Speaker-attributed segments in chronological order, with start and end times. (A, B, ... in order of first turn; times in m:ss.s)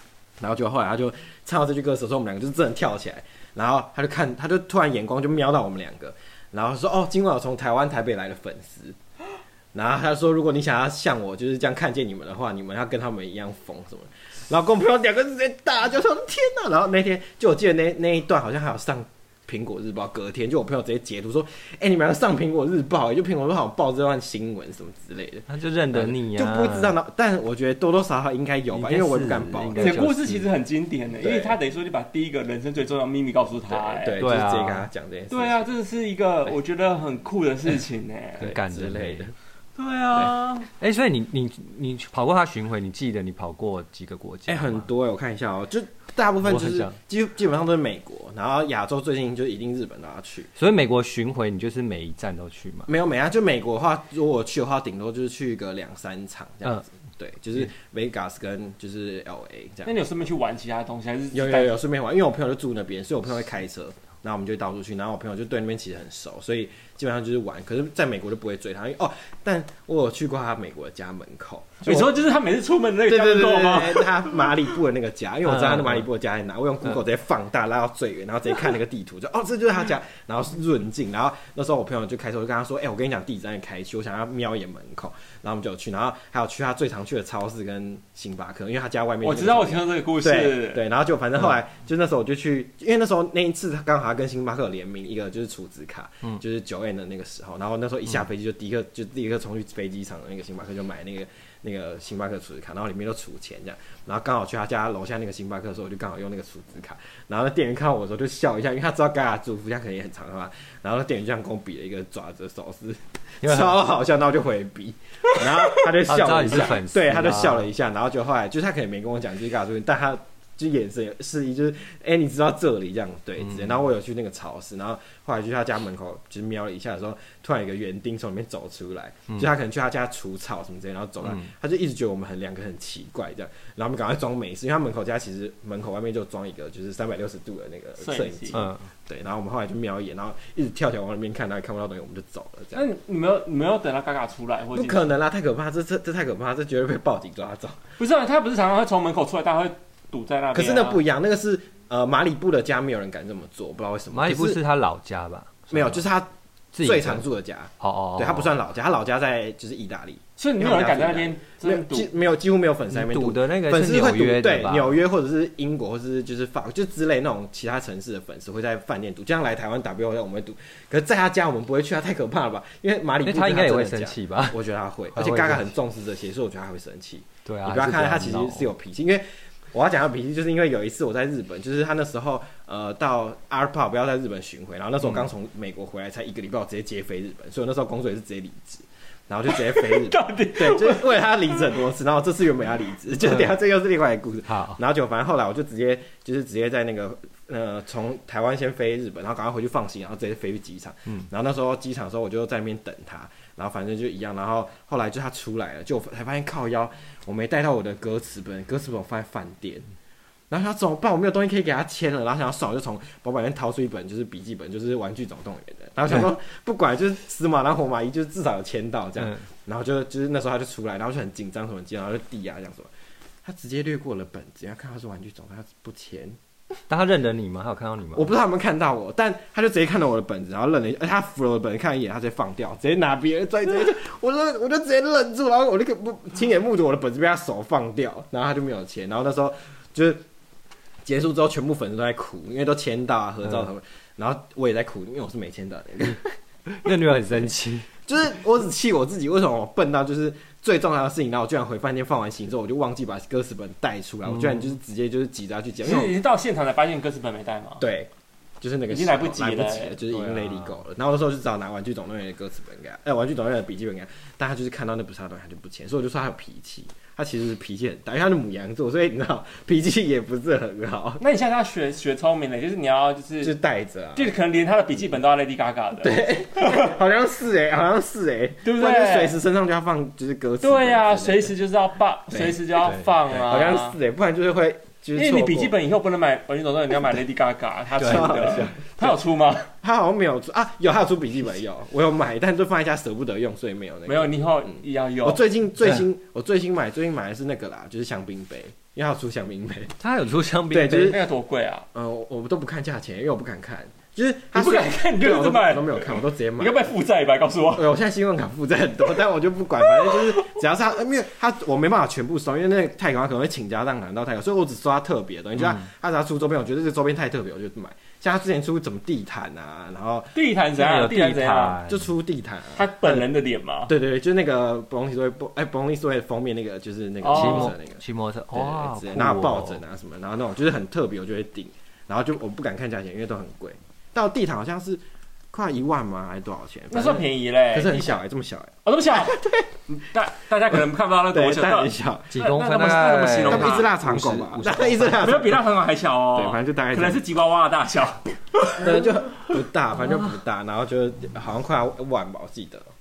0:00.4-0:09.0 A
0:09.7-0:30.1 A
0:25.5-0:26.9 B
0:28.7-0:30.5 B
0:29.8-0:34.2 C
0:31.2-0:31.5 A
0:33.8-0:35.6 A
0:34.2-0:34.9 B
0:35.3-0:38.5 C
0:38.4-0:39.3 B
0:38.4-0:39.3 A
0:39.8-0:40.7 C
0:40.8-0:44.8 B
0:44.5-0:50.5 A
0:46.4-0:46.9 B
0:50.6-0:52.9 B
0:52.9-0:59.9 A
0:59.8-1:01.7 C
1:01.3-1:12.1 A
1:11.8-1:14.4 C
1:13.1-2:22.8 A
1:15.4-1:16.0 B
1:29.2-1:30.8 C
1:53.4-1:53.8 B
1:56.0-1:57.7 B
2:11.2-2:11.5 B
2:18.0-2:18.6 C
2:18.5-2:18.8 B
2:22.7-2:25.1 C
2:24.7-2:27.8 A
2:28.0-2:31.0 C
2:30.5-2:34.6 A
2:34.1-2:36.0 B
2:35.7-2:36.3 A
2:36.7-2:37.2 B
2:36.8-3:29.9 A
2:37.8-2:38.5 B
2:40.4-2:42.1 C
2:42.9-2:45.0 B
2:53.2-2:54.6 B
2:55.1-2:55.7 B
2:57.4-2:58.7 B
3:05.0-3:05.3 B
3:09.5-3:11.0 C
3:14.5-3:14.8 B
3:30.5-3:42.9 A
3:43.4-3:46.4 A
3:46.9-3:48.3 B
3:48.1-4:00.2 A
4:01.0-4:06.3 A
4:06.8-4:07.9 B
4:08.0-4:16.1 A
4:14.2-4:14.7 B
4:15.8-4:17.8 C
4:17.8-4:18.1 A
4:18.6-4:31.2 A
4:18.9-4:20.0 C
4:20.1-4:20.8 B
4:31.2-4:33.5 C
4:33.4-4:34.3 A
4:34.1-4:36.9 C
4:36.0-4:41.5 A
4:38.6-4:39.4 C
4:40.6-4:44.0 C
4:42.3-4:45.7 A
4:45.1-4:49.7 C
4:48.0-4:49.2 A
4:48.0-4:48.5 B
4:49.8-4:59.9 A
4:54.0-4:55.4 C
5:00.0-5:01.2 B
5:00.7-5:01.2 A
5:01.0-5:01.8 C
5:01.9-5:06.8 A
5:04.5-5:07.8 C
5:07.8-5:20.3 A
5:10.0-5:10.5 C
5:15.6-5:15.8 B
5:20.3-5:21.8 C
5:20.8-5:22.1 B
5:21.9-5:23.3 A
5:22.8-5:23.9 C
5:23.9-5:35.0 A
5:27.2-5:27.7 C
5:27.3-5:29.8 B
5:35.5-5:39.7 A
5:36.9-5:38.2 C
5:38.8-5:43.9 C
5:41.3-5:42.4 A
5:42.3-5:45.2 B
5:43.5-5:45.6 A
5:45.2-5:49.0 C
5:46.3-5:47.2 A
5:48.7-5:52.9 A